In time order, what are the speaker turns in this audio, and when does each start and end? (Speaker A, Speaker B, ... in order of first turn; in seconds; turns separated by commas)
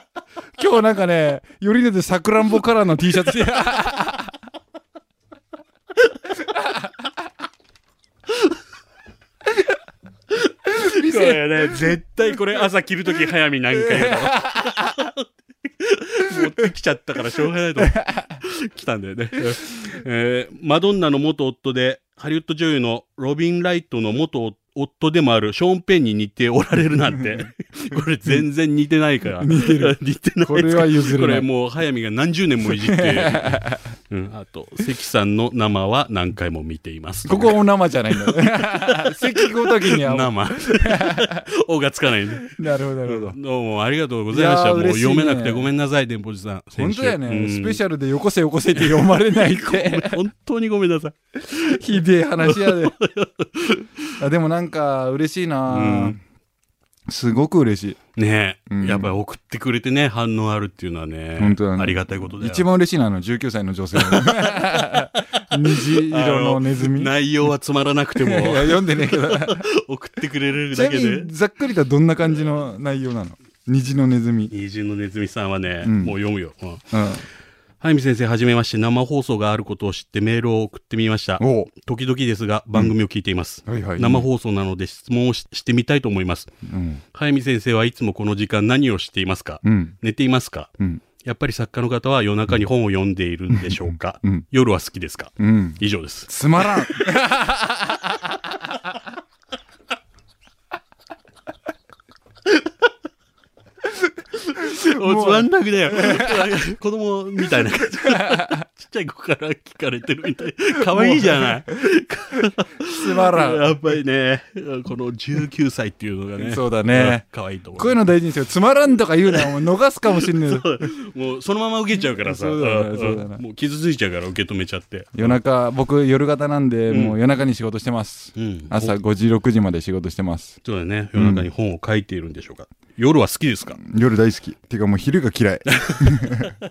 Speaker A: 0.6-4.3, Speaker B: 10.3-37.6, Speaker A: 10.7-12.0, Speaker A: 13.8-14.9, Speaker A: 17.8-18.4, Speaker A: 29.4-31.5, Speaker A: 32.7-33.9, Speaker A: 37.2-41.4, Speaker B: 38.3-47.8, Speaker A: 42.4-43.4, Speaker A: 44.3-45.7, Speaker A: 46.7-50.2, Speaker B: 48.8-51.8, Speaker A: 51.5-53.0, Speaker B: 52.4-54.1, Speaker A: 54.2-56.2, Speaker B: 55.7-56.2, Speaker A: 57.1-58.0, Speaker B: 58.1-62.7, Speaker A: 58.7-59.1, Speaker A: 61.4-67.1, Speaker B: 64.0-64.3, Speaker B: 65.7-71.3, Speaker A: 68.2-69.6, Speaker A: 70.7-74.5, Speaker B: 74.5-76.9, Speaker A: 75.8-76.2, Speaker A: 76.9-77.2, Speaker B: 77.8-86.5, Speaker A: 81.4-81.7, Speaker A: 83.7-84.3, Speaker A: 86.6-87.0, Speaker B: 87.1-96.7, Speaker A: 89.6-89.9, Speaker A: 93.5-94.4, Speaker A: 95.4-98.6, Speaker B: 104.4-118.0, Speaker A: 104.7-106.4, Speaker A: 107.9-108.5, Speaker A: 110.9-111.6, Speaker A: 112.9-113.9, Speaker A: 116.4-117.2, Speaker A: 117.7-120.9, Speaker B: 120.2-125.4, Speaker A: 122.2-123.4, Speaker A: 125.1-130.6, Speaker B: 126.9-127.2, Speaker B: 128.3-129.0, Speaker B: 130.6-133.8, Speaker A: 131.1-131.5, Speaker A: 133.8-136.5, Speaker B: 135.7-136.5